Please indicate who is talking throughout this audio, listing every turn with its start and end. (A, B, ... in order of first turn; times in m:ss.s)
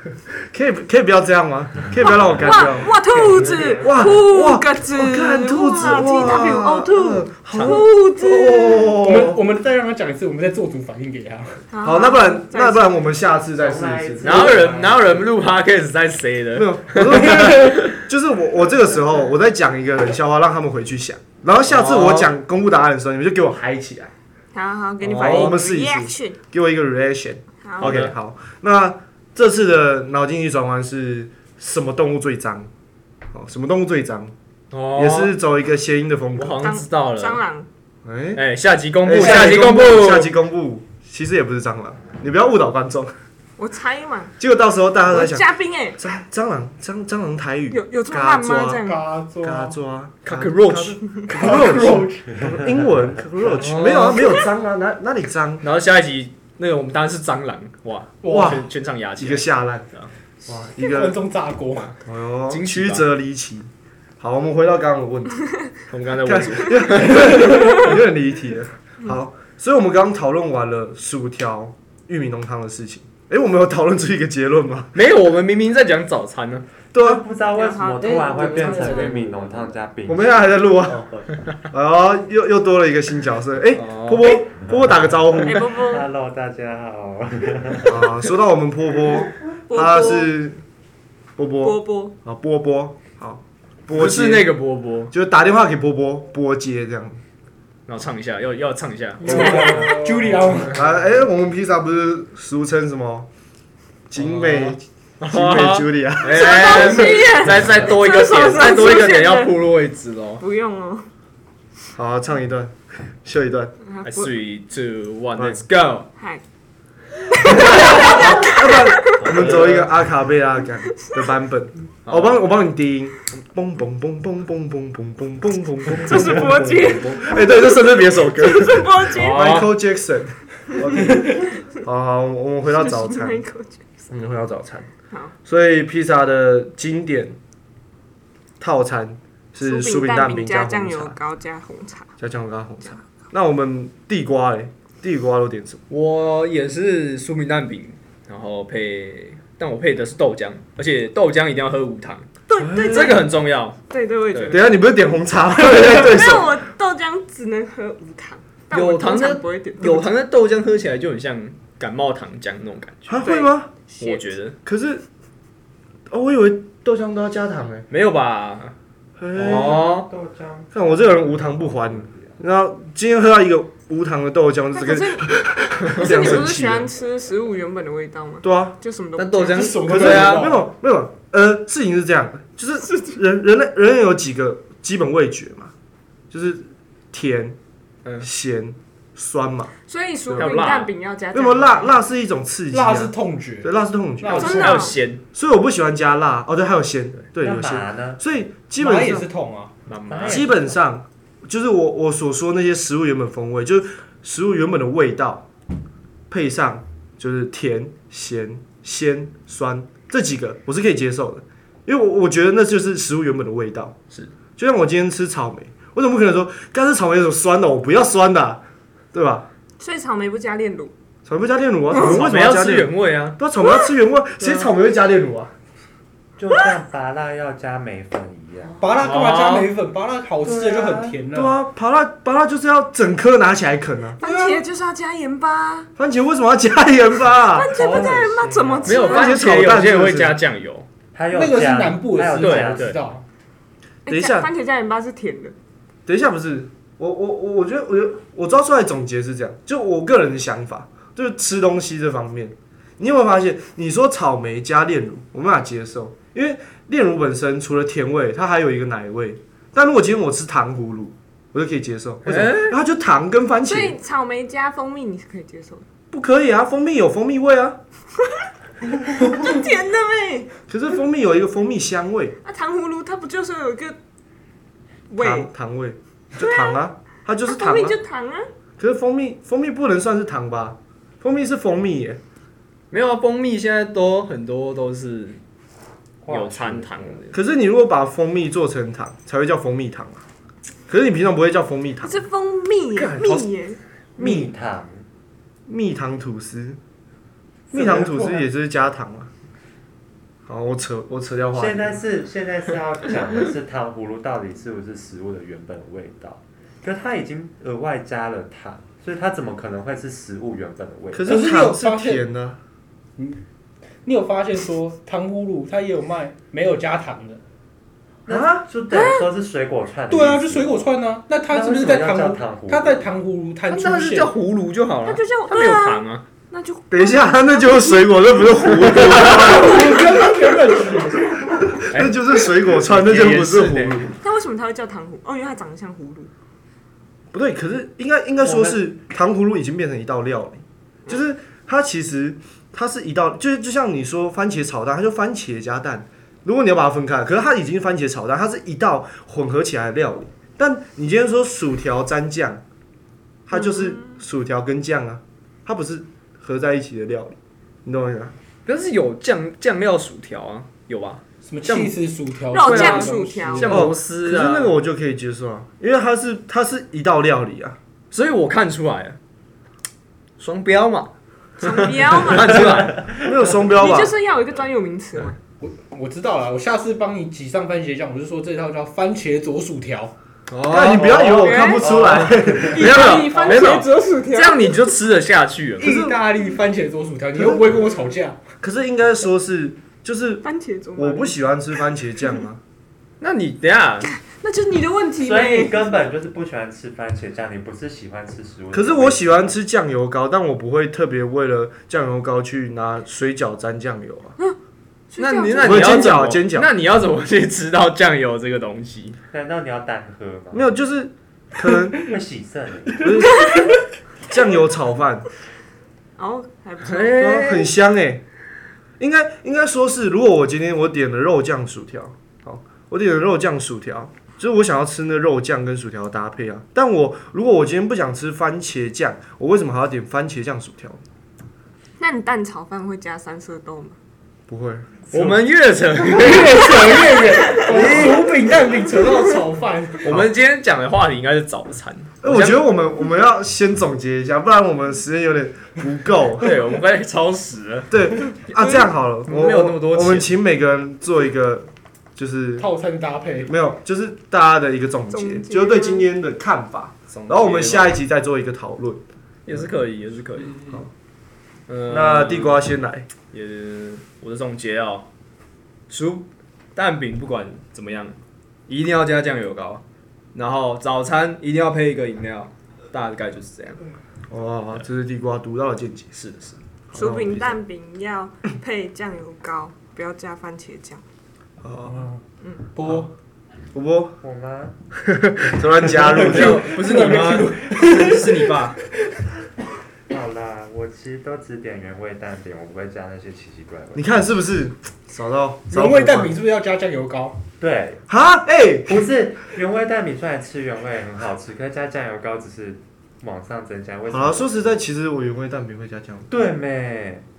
0:00.3-0:03.0 A
0:02.2-0:04.1 B
0:02.3-0:09.0 C
0:03.8-0:09.4 A
0:07.5-0:07.8 D
0:09.0-0:11.6 E
0:11.7-0:13.1 C
0:11.8-0:14.5 A
0:13.6-0:15.2 B
0:14.2-0:18.0 D
0:16.5-0:24.1 A
0:21.6-0:22.3 D
0:24.5-0:26.4 C
0:25.0-0:25.6 D
0:25.0-0:32.7 A
0:27.6-0:28.0 C
0:27.8-0:28.1 D
0:33.3-0:34.3 A
0:34.7-0:35.3 D
0:35.0-0:36.6 A
0:36.4-0:37.4 D
0:36.6-0:37.7 C
0:38.0-0:38.4 A
0:38.3-0:40.3 D
0:39.0-0:43.1 A
0:43.6-0:44.3 C
0:44.4-0:48.8 A
0:45.1-0:46.0 C
0:47.7-0:49.0 C
0:48.8-0:49.8 E
0:49.4-0:55.7 A
0:50.3-0:51.0 D
0:51.3-0:52.3 E
0:53.4-0:54.4 D
0:55.6-1:00.1 D
0:58.2-0:58.6 E
0:58.3-0:59.9 A
1:00.4-1:01.2 A
1:00.7-1:02.0 E
1:02.0-1:05.5 A
1:02.5-1:03.0 D
1:05.9-1:07.3 D
1:06.2-1:15.0 A
1:07.2-1:07.6 E
1:14.9-1:16.7 D
1:16.9-1:17.2 A
1:17.0-1:20.7 B
1:17.5-1:19.1 C
1:18.1-1:19.3 D
1:20.1-1:21.1 A
1:21.7-1:25.7 A
1:23.8-1:24.4 D
1:25.4-1:26.1 C
1:25.5-1:28.0 B
1:27.9-1:30.6 A
1:29.7-1:30.4 C
1:31.4-1:34.5 A
1:31.6-1:32.1 C
1:33.9-1:35.1 D
1:35.1-1:37.2 A
1:37.9-1:39.9 D
1:39.2-1:40.8 E
1:39.2-1:39.9 A
1:40.7-1:43.3 A
1:44.1-1:47.2 A
1:44.2-1:50.4 D
1:46.3-1:49.7 C
1:50.4-1:51.1 C
1:52.0-1:53.7 A
1:53.8-1:54.4 C
1:54.0-1:56.1 D
1:55.4-1:55.6 A
1:56.2-1:56.4 C
1:57.4-1:59.3 C
1:57.5-1:58.2 D
1:57.5-2:13.4 A
1:59.2-1:59.9 D
2:02.1-2:02.4 D
2:05.9-2:09.4 C
2:09.1-2:09.7 D
2:11.0-2:11.5 C
2:12.7-2:14.0 C
2:14.1-2:14.9 A
2:15.4-2:17.4 A
2:18.6-2:21.2 A
2:19.6-2:22.1 C
2:22.2-2:25.8 A
2:25.9-2:32.3 D
2:32.5-2:33.2 C
2:32.6-2:33.2 A
2:32.8-2:33.8 D
2:33.9-2:34.8 C
2:34.5-2:36.6 A
2:35.7-2:40.1 C
2:38.7-2:43.2 D
2:43.1-2:43.7 A
2:43.2-2:44.3 C
2:44.0-2:44.6 D
2:44.6-2:45.0 A
2:46.1-2:47.9 A
2:47.9-2:48.7 D
2:49.2-2:49.8 A
2:49.4-2:50.1 D
2:49.4-2:52.4 B
2:50.7-2:56.9 A
2:54.7-2:55.3 C
2:55.9-2:59.8 C
2:58.4-2:58.8 A
2:59.2-3:00.6 D
2:59.5-3:00.7 E
2:59.9-3:05.7 A
3:02.8-3:03.2 C
3:06.3-3:07.6 A
3:08.2-3:09.7 A
3:09.8-3:12.0 C
3:10.3-3:10.9 D
3:11.3-3:14.7 A
3:12.7-3:14.9 E
3:14.3-3:15.0 C
3:14.4-3:15.2 D
3:15.3-3:19.3 A
3:17.4-3:18.2 B
3:18.8-3:19.7 E
3:19.9-3:20.5 D
3:20.1-3:20.7 B
3:20.3-3:25.5 A
3:26.3-3:34.0 A
3:34.6-3:38.6 A
3:39.1-3:39.5 A
3:39.8-3:40.9 C
3:41.3-3:45.5 A
3:41.9-3:42.2 C
3:41.9-3:43.4 D
3:44.4-3:44.7 C
3:46.4-3:49.1 B
3:48.8-3:51.6 E
3:49.0-3:49.7 D
3:50.4-3:51.2 B
3:51.3-3:54.2 A
3:54.2-3:55.9 C
3:54.2-3:54.6 E
3:56.0-3:57.8 A
3:57.5-3:59.4 C
3:57.7-3:59.1 B
3:58.8-4:00.9 D
3:59.0-4:00.4 A
4:01.1-4:03.0 B
4:01.3-4:03.2 E
4:02.4-4:03.0 D
4:04.1-4:05.6 C
4:04.1-4:04.5 A
4:06.1-4:24.0 A
4:22.2-4:22.8 D
4:23.6-4:25.8 C
4:26.1-4:27.8 A
4:29.1-4:30.5 C
4:30.7-4:32.4 A
4:32.4-4:34.0 C
4:35.1-4:35.5 C
4:35.2-4:38.0 A
4:36.4-4:36.8 C
4:37.5-4:38.5 C
4:38.8-4:42.2 A
4:42.9-4:45.4 D
4:46.2-4:47.2 B
4:46.3-4:47.4 D
4:47.3-4:50.2 A
4:50.9-4:52.2 A
4:52.0-4:53.8 C
4:53.0-4:53.4 A
4:54.2-4:55.1 B
4:54.2-4:54.5 A
4:55.7-4:56.8 A
4:57.7-4:58.5 E
4:57.7-4:59.3 A
5:00.5-5:02.0 A
5:01.5-5:11.4 B
5:11.1-5:12.6 A
5:11.2-5:12.2 E
5:14.0-5:17.4 E
5:18.3-5:20.9 B
5:18.3-5:18.7 A
5:18.9-5:19.3 C
5:20.1-5:24.4 E
5:21.4-5:23.1 B
5:23.7-5:26.2 D
5:25.0-5:30.3 C
5:26.9-5:30.0 A
5:28.7-5:29.6 D
5:29.4-5:31.4 E
5:31.8-5:34.2 A
5:31.9-5:34.1 D
5:34.2-5:36.3 C
5:37.3-5:52.6 A
5:38.4-5:38.8 B
5:53.5-5:58.3 A
5:53.6-5:54.2 C
5:58.7-6:01.2 D
6:01.4-6:03.8 E
6:01.6-6:02.0 A
6:02.5-6:03.7 C
6:02.6-6:04.8 D
6:03.6-6:07.8 A
6:08.1-6:09.2 D
6:10.4-6:13.0 D
6:11.6-6:12.9 C
6:13.1-6:14.1 A
6:13.8-6:15.4 C
6:15.6-6:20.1 E
6:20.5-6:21.3 D
6:20.7-6:22.8 A
6:21.0-6:23.6 B
6:21.4-6:21.9 C
6:21.9-6:25.9 D
6:22.6-6:24.8 C
6:25.8-6:28.4 E
6:25.8-6:26.2 A
6:27.4-6:27.8 A
6:28.6-6:30.4 A
6:30.4-6:31.4 C
6:31.0-6:32.6 A
6:33.2-6:34.1 D
6:34.2-6:35.9 C
6:35.2-6:39.5 B
6:38.7-6:44.4 A
6:45.1-6:46.2 C
6:45.2-6:49.2 D
6:45.6-6:46.7 A
6:49.3-6:50.7 B
6:50.5-6:52.1 A
6:52.0-6:53.1 B
6:53.0-6:53.6 A
6:53.3-6:53.7 E
6:54.2-6:55.3 A
6:56.2-6:57.4 C
6:56.8-6:57.7 D
6:57.2-6:58.2 A
6:59.0-7:11.0 A
7:12.0-7:14.0 C
7:14.5-7:15.3 A
7:15.1-7:17.1 D
7:16.1-7:20.1 E
7:17.4-7:17.8 C
7:17.7-7:18.3 A
7:20.0-7:20.3 A
7:20.1-7:22.6 D
7:22.2-7:26.6 A
7:26.4-7:30.3 D
7:27.9-7:32.7 A
7:32.6-7:33.5 E
7:33.4-7:39.0 A
7:35.1-7:36.1 C
7:37.1-7:38.0 D
7:39.5-7:40.7 D
7:41.7-7:42.7 D
7:41.9-7:43.1 A
7:43.3-7:45.1 D
7:45.9-7:48.2 D
7:48.7-7:49.8 D
7:50.3-7:53.8 D
7:54.3-7:56.1 A
7:56.1-7:56.6 D
7:56.9-7:57.6 A
7:56.9-8:01.0 C
8:01.6-8:02.0 A
8:01.9-8:03.1 E
8:03.7-8:04.2 A
8:04.2-8:04.8 B
8:04.9-8:06.7 A
8:06.1-8:09.0 E
8:06.2-8:08.8 D
8:10.1-8:14.2 B
8:13.9-8:16.4 A
8:15.7-8:17.4 E
8:17.6-8:18.0 B
8:18.1-8:19.1 A
8:18.9-8:24.8 B
8:24.1-8:26.3 A
8:26.3-8:27.3 B